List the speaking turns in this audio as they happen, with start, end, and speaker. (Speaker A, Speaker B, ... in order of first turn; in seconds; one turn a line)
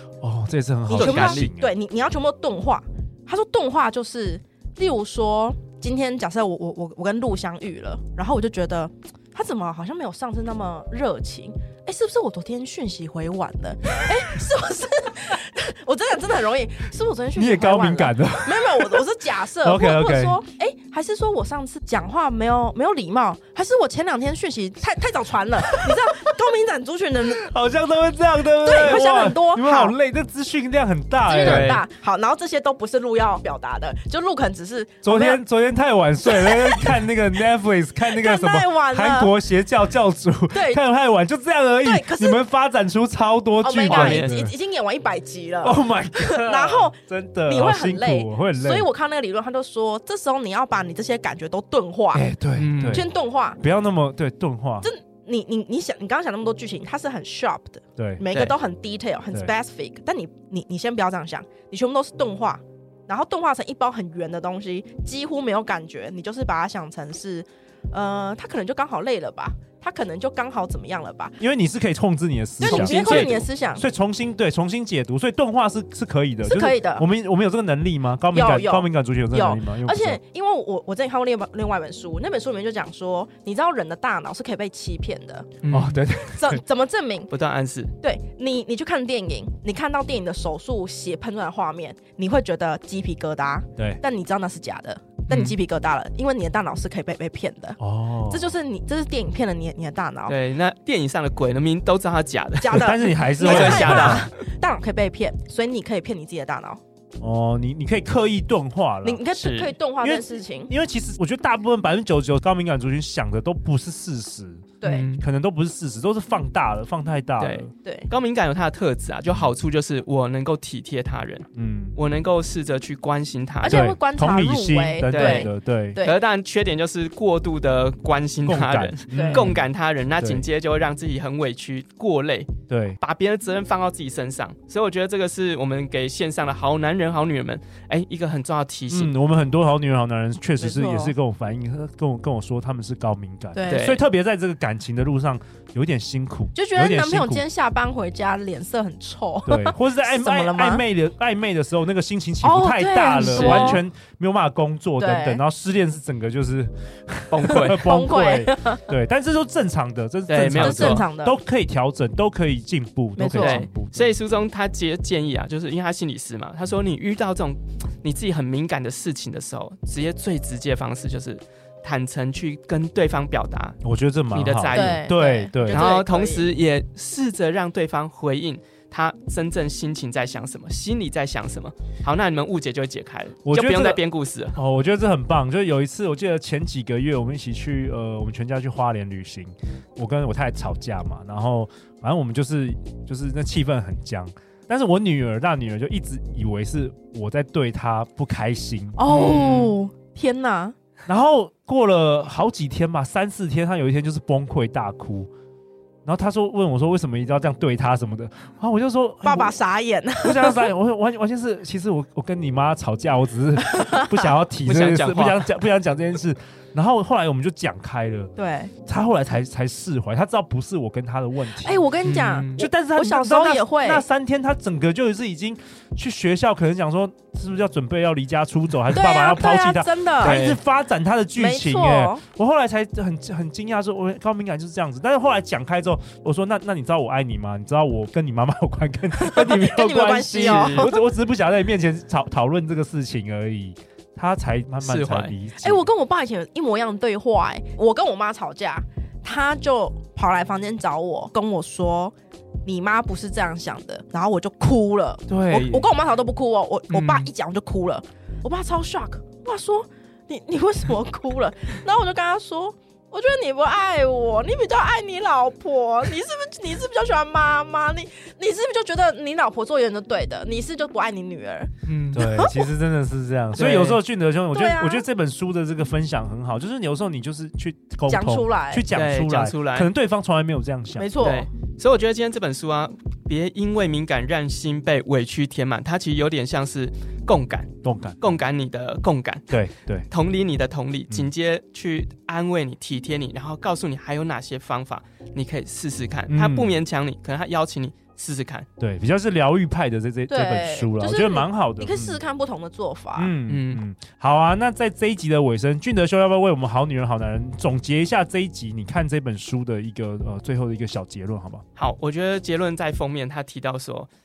Speaker A: 0.2-1.7
Speaker B: 0.9-27.4
Speaker C: 0.9-1.5
Speaker A: 17.4-20.4
Speaker A: 27.3-31.8
Speaker B: 28.6-29.9
Speaker B: 31.2-35.4
Speaker C: 31.4-31.8
Speaker A: 35.0-44.5
Speaker B: 36.2-37.1
Speaker B: 38.1-39.3
Speaker B: 40.5-40.8
Speaker B: 41.8-42.4
Speaker B: 43.6-52.3
Speaker C: 43.9-44.4
Speaker A: 45.6-48.9
Speaker A: 52.1-54.9
Speaker C: 52.5-53.0
Speaker B: 52.9-53.6
Speaker B: 54.8-71.4
Speaker A: 58.0-58.2
Speaker A: 71.4-80.2
Speaker B: 72.6-73.8
Speaker C: 72.6-73.4
Speaker B: 76.4-77.0
Speaker B: 78.3-85.5
Speaker C: 85.6-86.0
Speaker A: 85.7-86.6
Speaker B: 86.2-87.3
Speaker C: 87.3-87.9
Speaker B: 88.0-100.3
Speaker C: 95.3-95.6
Speaker A: 97.8-98.5
Speaker C: 100.3-104.3
Speaker B: 102.6-106.8
Speaker A: 102.7-104.3
Speaker A: 107.2-109.2
Speaker B: 109.0-110.7
Speaker C: 109.3-109.7
Speaker A: 110.0-117.7
Speaker B: 114.8-115.0
Speaker C: 114.8-115.2
Speaker C: 117.4-123.9
Speaker B: 117.8-118.1
Speaker A: 121.5-122.0
Speaker B: 123.6-126.2
Speaker A: 123.7-126.0
Speaker C: 125.1-139.1
Speaker A: 128.4-129.6
Speaker B: 129.1-129.4
Speaker A: 130.2-130.4
Speaker A: 132.7-133.0
Speaker A: 138.9-147.4
Speaker B: 140.6-141.1
Speaker B: 143.5-143.9
Speaker C: 143.7-144.0
Speaker B: 146.5-150.8
Speaker A: 149.4-164.2
Speaker B: 152.4-153.8
Speaker C: 153.2-153.8
Speaker B: 155.0-155.4
Speaker C: 157.3-157.8
Speaker B: 157.5-158.8
Speaker C: 160.3-161.1
Speaker B: 160.6-161.4
Speaker B: 163.2-163.6
Speaker C: 163.3-173.8
Speaker A: 173.8-175.9
Speaker C: 174.3-175.1
Speaker B: 174.7-176.5
Speaker C: 175.7-184.6
Speaker A: 183.4-184.0
Speaker A: 184.5-199.4
Speaker B: 198.9-200.7
Speaker C: 199.1-199.8
Speaker A: 201.1-205.3
Speaker A: 206.0-209.5
Speaker B: 209.2-210.7
Speaker A: 210.2-218.3
Speaker B: 213.6-214.2
Speaker C: 214.7-215.5
Speaker B: 218.4-218.7
Speaker A: 218.8-221.9
Speaker B: 221.6-224.0
Speaker C: 222.0-222.6
Speaker A: 222.6-245.8
Speaker B: 228.9-230.4
Speaker C: 230.2-230.6
Speaker B: 231.3-232.2
Speaker B: 239.2-241.0
Speaker C: 240.4-240.9
Speaker C: 244.8-245.3
Speaker B: 245.6-272.6
Speaker A: 255.3-255.9
Speaker C: 256.9-257.3
Speaker C: 271.9-272.3
Speaker A: 272.1-281.2
Speaker C: 273.6-274.0
Speaker B: 274.5-275.0
Speaker B: 278.1-278.9
Speaker C: 278.9-279.9
Speaker B: 281.0-281.5
Speaker C: 281.2-289.6
Speaker A: 287.8-288.2
Speaker A: 289.5-290.1
Speaker C: 290.1-298.6
Speaker A: 296.3-296.8
Speaker A: 298.8-302.2
Speaker B: 300.3-303.3
Speaker A: 303.1-311.6
Speaker C: 303.5-303.8
Speaker C: 311.8-314.1